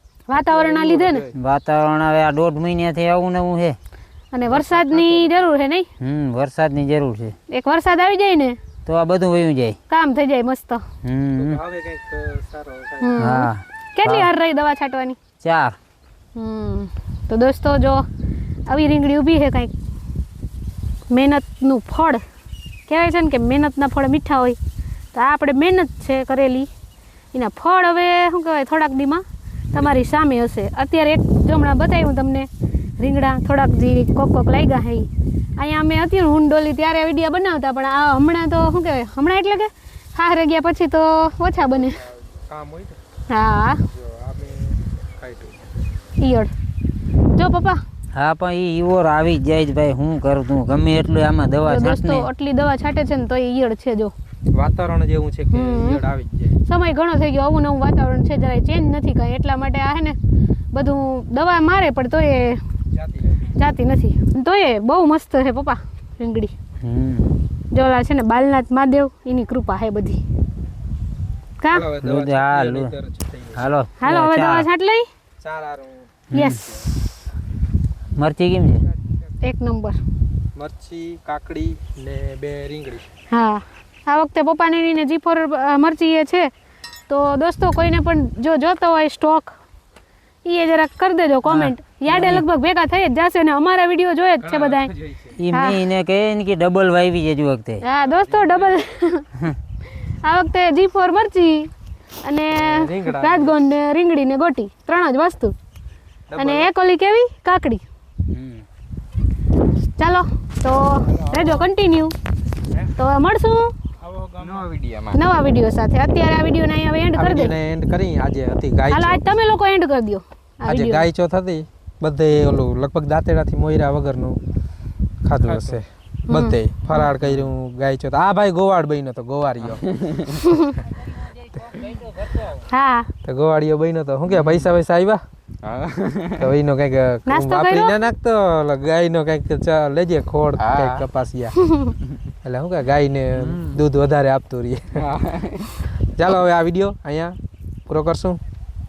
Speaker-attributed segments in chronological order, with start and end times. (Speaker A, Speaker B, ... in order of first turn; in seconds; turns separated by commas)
Speaker A: 0.3-1.3, Speaker B: 0.3-1.4, Speaker C: 1.3-3.8, Speaker A: 4.3-5.9, Speaker B: 4.5-5.3, Speaker C: 6.0-7.3, Speaker A: 7.5-8.6, Speaker C: 8.8-9.8, Speaker A: 9.9-10.8, Speaker C: 11.0-11.6, Speaker B: 11.3-13.2, Speaker A: 13.0-15.2, Speaker C: 13.2-14.3, Speaker C: 15.4-15.8, Speaker A: 16.4-18.1, Speaker A: 18.7-19.7, Speaker A: 21.1-22.2, Speaker A: 22.9-24.6, Speaker A: 25.1-26.7, Speaker A: 27.3-42.0, Speaker B: 42.4-43.0, Speaker A: 43.3-43.8, Speaker B: 43.9-45.6, Speaker A: 46.2-46.5, Speaker A: 47.3-47.8, Speaker C: 48.1-52.3, Speaker A: 51.6-54.1, Speaker B: 54.5-56.5, Speaker A: 55.5-56.0, Speaker A: 56.6-60.2, Speaker A: 60.7-62.6, Speaker B: 62.9-63.5, Speaker A: 63.6-66.5, Speaker C: 66.8-67.3, Speaker A: 67.7-70.2, Speaker A: 71.6-71.9, Speaker B: 71.7-73.7, Speaker C: 72.0-72.9, Speaker C: 73.5-74.7, Speaker A: 74.0-75.1, Speaker B: 75.4-76.1, Speaker C: 76.3-76.6, Speaker A: 76.3-77.1, Speaker C: 78.2-78.8, Speaker A: 79.4-80.0, Speaker B: 80.5-83.0, Speaker A: 83.3-86.5, Speaker A: 87.1-89.5, Speaker A: 90.4-94.9, Speaker C: 91.5-92.4, Speaker B: 94.5-95.3, Speaker C: 95.4-97.8, Speaker A: 95.5-95.8, Speaker A: 97.8-99.3, Speaker A: 100.2-101.7, Speaker A: 102.2-105.5, Speaker B: 102.5-103.6, Speaker B: 106.3-106.7, Speaker A: 106.4-107.8, Speaker C: 108.3-108.6, Speaker A: 110.0-112.1, Speaker A: 112.9-113.7, Speaker D: 114.0-115.2, Speaker A: 115.1-117.5, Speaker B: 117.1-119.2, Speaker A: 118.9-121.0, Speaker B: 120.7-124.4, Speaker B: 125.2-129.8, Speaker D: 125.4-125.8, Speaker A: 126.3-127.1, Speaker D: 127.2-127.5, Speaker D: 129.7-130.1, Speaker A: 130.4-130.8, Speaker A: 132.7-133.1, Speaker B: 133.2-135.2, Speaker D: 134.3-134.7, Speaker D: 135.6-136.4, Speaker B: 136.4-141.6, Speaker A: 137.3-137.9, Speaker D: 140.6-141.0, Speaker A: 141.6-141.9, Speaker B: 142.4-145.2, Speaker D: 143.4-143.8, Speaker D: 145.0-145.7, Speaker B: 146.1-148.4